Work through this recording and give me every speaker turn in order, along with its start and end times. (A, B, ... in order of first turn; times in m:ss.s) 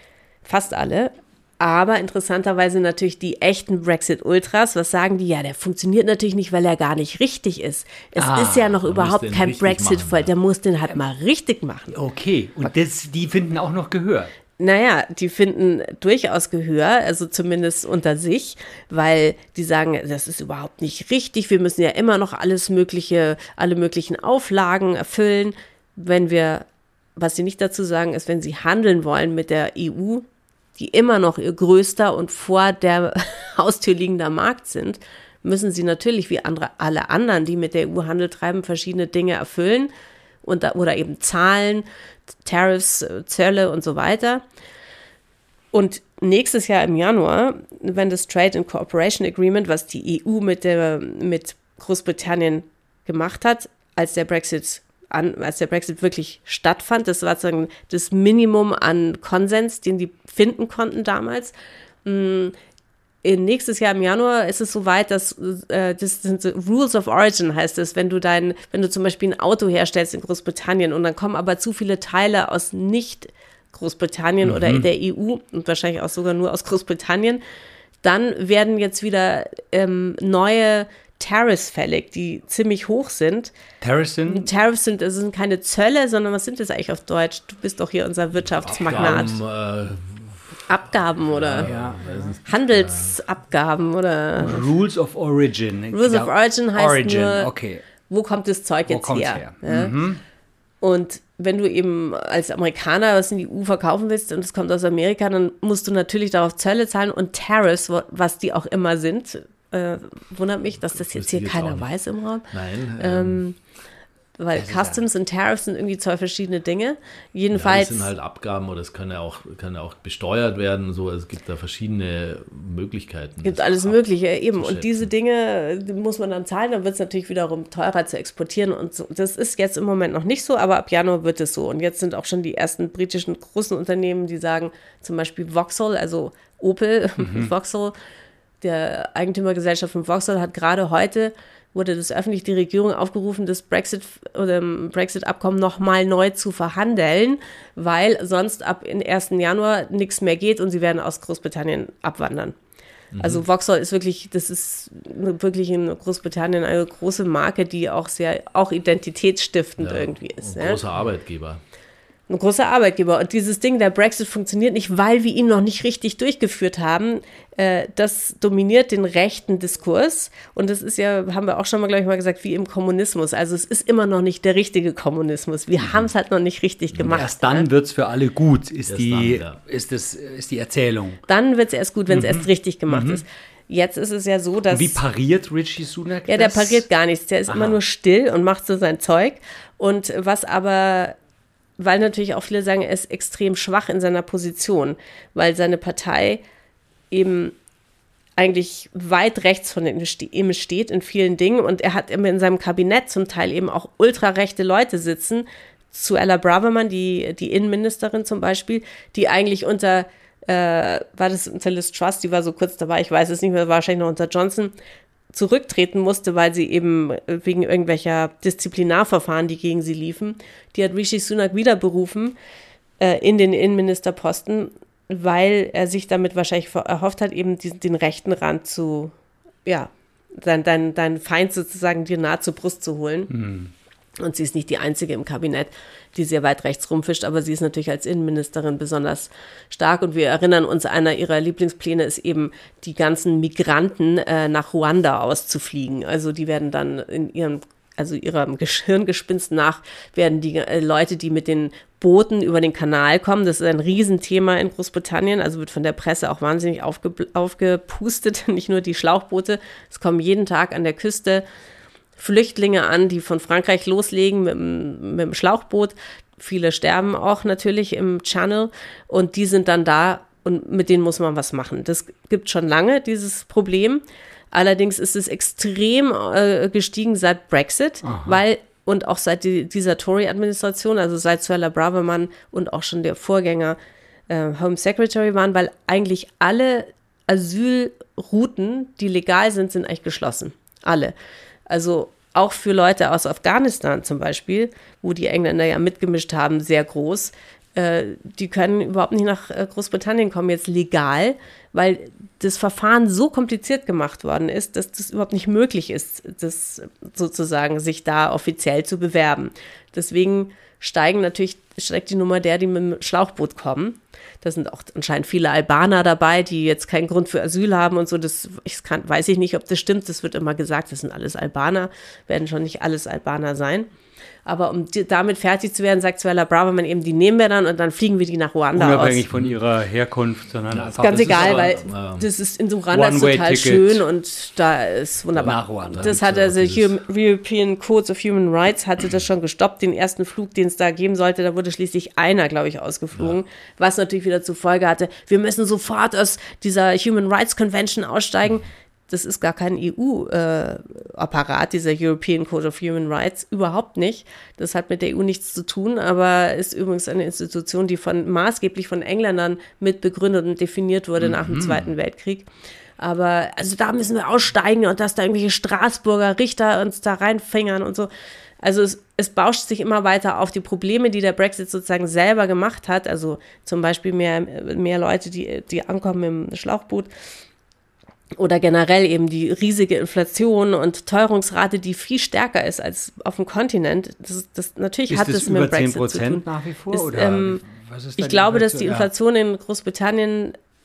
0:00.4-0:11.9 A
0:08.2-0:08.7 B
0:08.7-0:10.3 C
0:11.9-0:14.3 B
0:14.6-0:30.2 A
0:30.8-0:39.9 A
0:40.4-0:41.8 A
0:42.4-0:44.4 A
0:45.7-1:01.5 A
1:02.0-1:02.5 A
1:03.2-1:17.4 A
1:14.4-1:14.9 B
1:18.0-1:23.5 A
1:23.8-1:24.5 B
1:24.2-1:29.4 A
1:28.7-1:30.6 C
1:30.7-1:31.7 A
1:31.3-1:33.2 C
1:31.6-1:32.3 B
1:32.4-1:34.7 A
1:34.4-1:37.8 B
1:35.9-1:37.5 A
1:38.1-1:39.9 A
1:38.9-1:40.2 B
1:40.8-1:53.6 A
1:50.9-1:51.9 C
1:52.5-1:53.4 C
1:54.4-1:58.1 A
1:54.5-1:55.0 B
1:57.5-2:04.0 C
2:03.4-2:17.9 A
2:04.5-2:05.1 C
2:17.2-2:17.5 B
2:18.6-2:32.5 A
2:33.1-2:33.4 C
2:33.2-2:40.8 A
2:39.8-2:41.6 C
2:42.3-2:57.6 A
2:55.8-2:56.1 C
2:56.9-2:57.2 C
2:57.0-3:01.2 B
2:58.9-2:59.6 C
3:01.3-3:05.0 A
3:02.1-3:03.2 B
3:04.7-3:06.8 B
3:06.3-3:11.2 A
3:07.5-3:07.8 B
3:11.8-3:16.4 A
3:17.1-3:17.5 A
3:18.4-3:34.7 A
3:35.3-3:42.4 A
3:43.0-3:49.1 A
3:49.6-3:53.3 A
3:53.3-3:53.7 B
3:54.2-4:21.4 A
4:22.2-4:43.8 A
4:38.0-4:38.4 B
4:44.3-4:51.1 A
4:51.7-5:23.9 A
5:24.4-5:29.2 A
5:28.8-5:31.7 B
5:30.7-5:32.3 C
5:31.0-6:02.4 A
5:32.9-5:34.0 B
5:35.3-5:37.0 C
5:35.4-5:36.1 B
6:01.2-6:01.8 B
6:03.0-6:08.1 A
6:08.6-6:17.1 A
6:18.4-6:27.6 A
6:25.1-6:29.1 B
6:28.2-6:30.6 A